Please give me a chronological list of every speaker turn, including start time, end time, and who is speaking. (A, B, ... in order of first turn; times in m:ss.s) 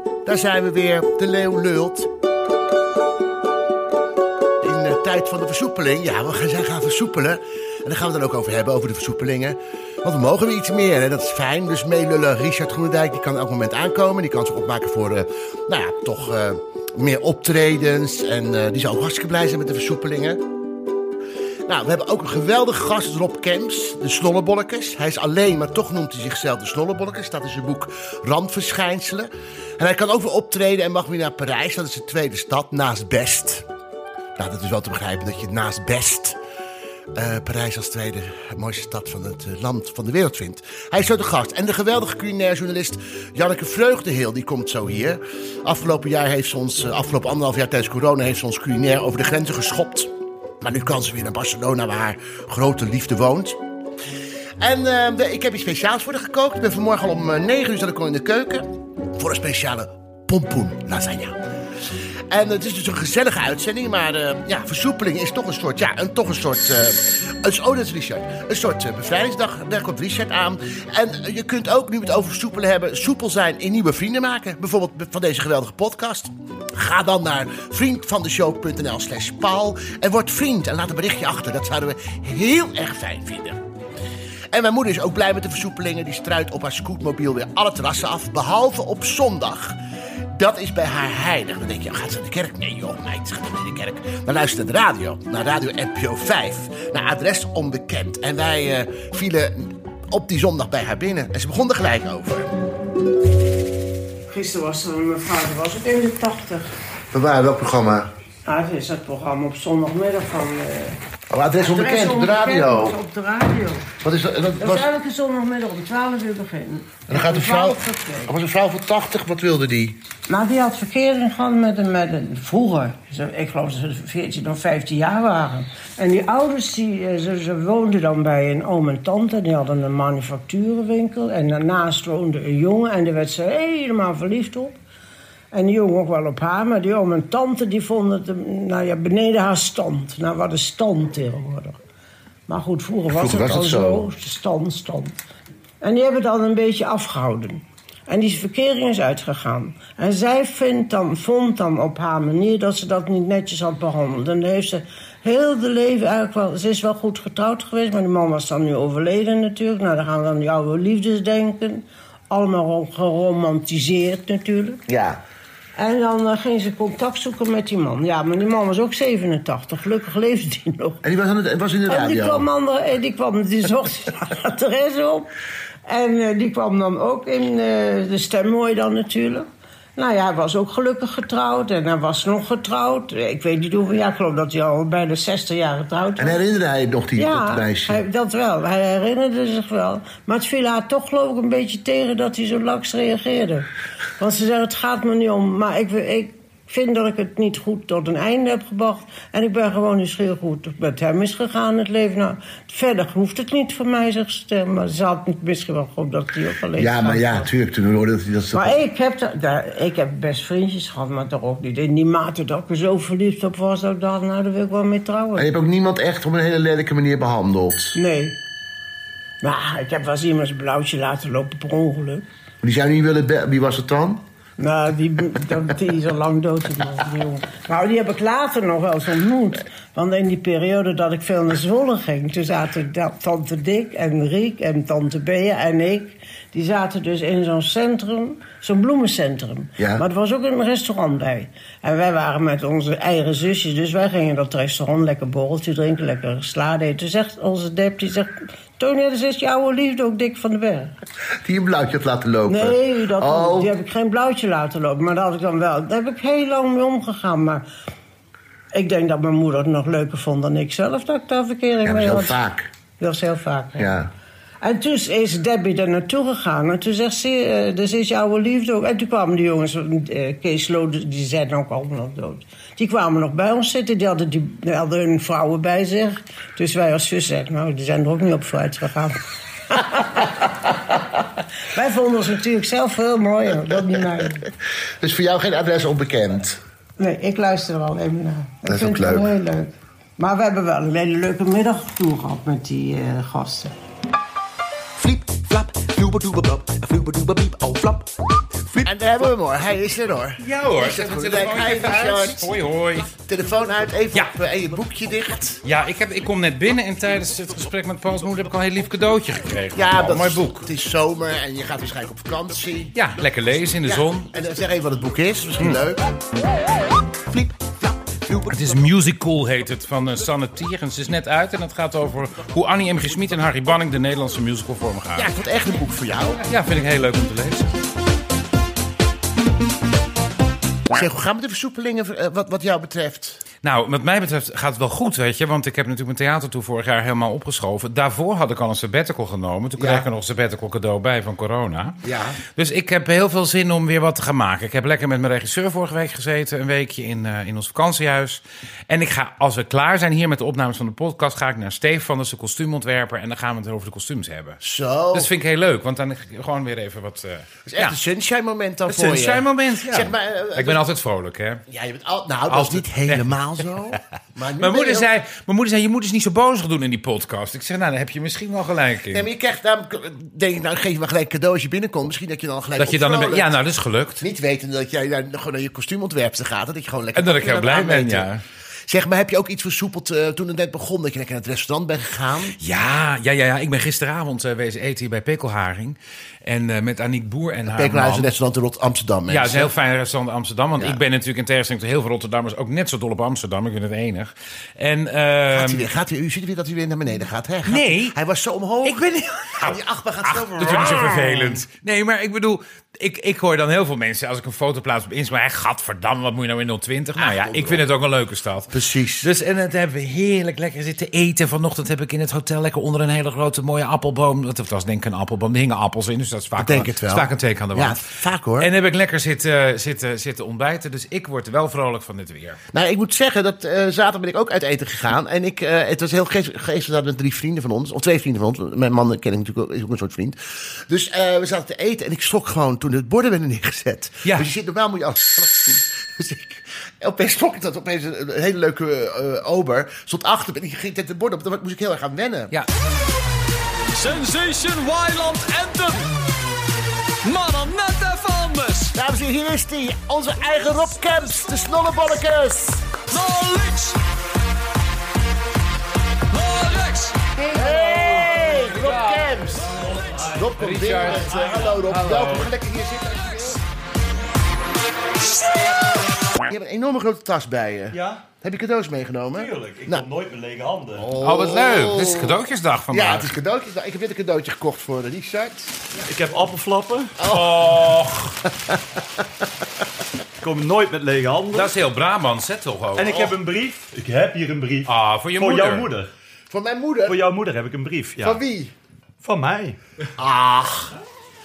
0:00.2-0:02.1 A
0:04.6-0:20.4 A
0:21.7-0:33.6 A
0:34.4-0:36.4 A
0:37.1-0:50.1 A
0:50.6-0:53.6 A
0:54.6-1:01.4 A
1:02.3-1:23.6 A
1:24.5-1:29.8 A
1:30.3-1:42.5 A
1:44.3-1:46.7 B
1:47.1-1:48.1 A
1:48.4-1:51.0 B
1:51.3-1:53.0 A
1:51.6-1:53.9 B
1:54.0-1:54.8 A
1:54.6-1:58.3 B
1:57.1-2:00.0 A
2:00.3-2:14.8 B
2:15.5-2:21.8 B
2:22.5-2:25.2 B
2:23.1-2:24.0 A
2:25.8-2:44.8 B
2:44.9-2:45.2 A
2:45.8-2:51.0 B
2:51.0-2:52.4 A
2:51.8-2:55.3 B
2:55.9-3:06.4 B
3:06.2-3:08.0 A
3:07.2-3:13.7 B
3:14.2-3:27.5 B
3:26.8-3:28.8 A
3:28.5-3:35.5 B
3:35.4-3:38.0 A
3:37.9-3:38.4 B
3:39.4-3:42.2 B
3:42.6-3:44.2 A
3:44.6-4:10.9 B
4:11.4-4:13.7 A
4:12.5-4:17.6 B
4:18.7-4:22.4 B
4:21.8-4:22.7 A
4:23.0-4:23.9 B
4:23.8-4:24.1 A
4:24.6-4:39.2 B
4:39.7-4:40.7 B
4:41.7-4:44.5 B
4:45.0-4:46.6 A
4:47.0-4:53.7 B
4:48.7-4:49.3 A
4:55.0-5:02.5 A
5:00.4-5:03.1 C
5:03.2-5:05.6 A
5:05.6-5:10.7 C
5:09.7-5:13.0 A
5:12.9-5:14.3 C
5:13.8-5:16.0 A
5:15.6-5:15.9 C
5:17.3-5:18.8 A
5:18.5-5:25.3 C
5:25.2-5:26.4 A
5:26.4-5:27.7 C
5:30.9-5:33.4 A
5:33.6-5:42.0 C
5:39.8-5:40.1 A
5:42.0-5:42.4 A
5:42.5-5:54.6 C
5:54.6-5:55.3 A
5:55.1-5:58.0 C
5:57.6-6:00.8 A
5:58.9-6:01.6 C
6:01.7-6:05.1 A
6:02.5-6:03.3 C
6:04.6-6:09.3 C
6:09.1-6:13.5 A
6:12.8-6:14.2 C
6:14.2-6:18.3 A
6:17.1-6:18.4 C
6:18.9-6:22.6 A
6:22.6-6:28.3 C
6:27.7-6:29.7 A
6:29.3-6:35.9 C
6:35.5-6:41.6 A
6:37.6-6:38.2 C
6:38.8-6:58.0 C
6:47.2-6:47.9 A
6:48.7-6:49.3 A
6:56.6-6:58.7 A
6:58.6-7:02.6 C
7:02.7-7:22.5 A
7:14.2-7:14.5 C
7:24.0-7:26.1 D
7:27.2-7:28.9 D
7:28.9-7:32.9 A
7:33.1-7:34.0 D
7:36.3-7:37.2 D
7:37.4-7:39.7 C
7:37.5-7:39.7 A
7:40.1-7:41.1 E
7:40.3-7:43.6 A
7:40.5-7:42.5 C
7:46.4-7:50.0 A
7:47.9-7:48.2 E
7:49.3-7:51.0 E
7:51.0-7:52.4 A
7:51.2-7:53.3 C
7:52.9-7:55.8 A
7:56.0-7:57.2 E
7:57.2-7:58.0 A
7:57.2-7:58.3 C
8:00.4-8:01.7 E
8:01.5-8:03.2 C
8:02.9-8:06.1 E
8:04.8-8:05.9 C
8:06.5-8:07.2 A
8:07.0-8:08.4 E
8:08.2-8:08.7 A
8:09.2-8:09.8 E
8:10.2-8:10.9 A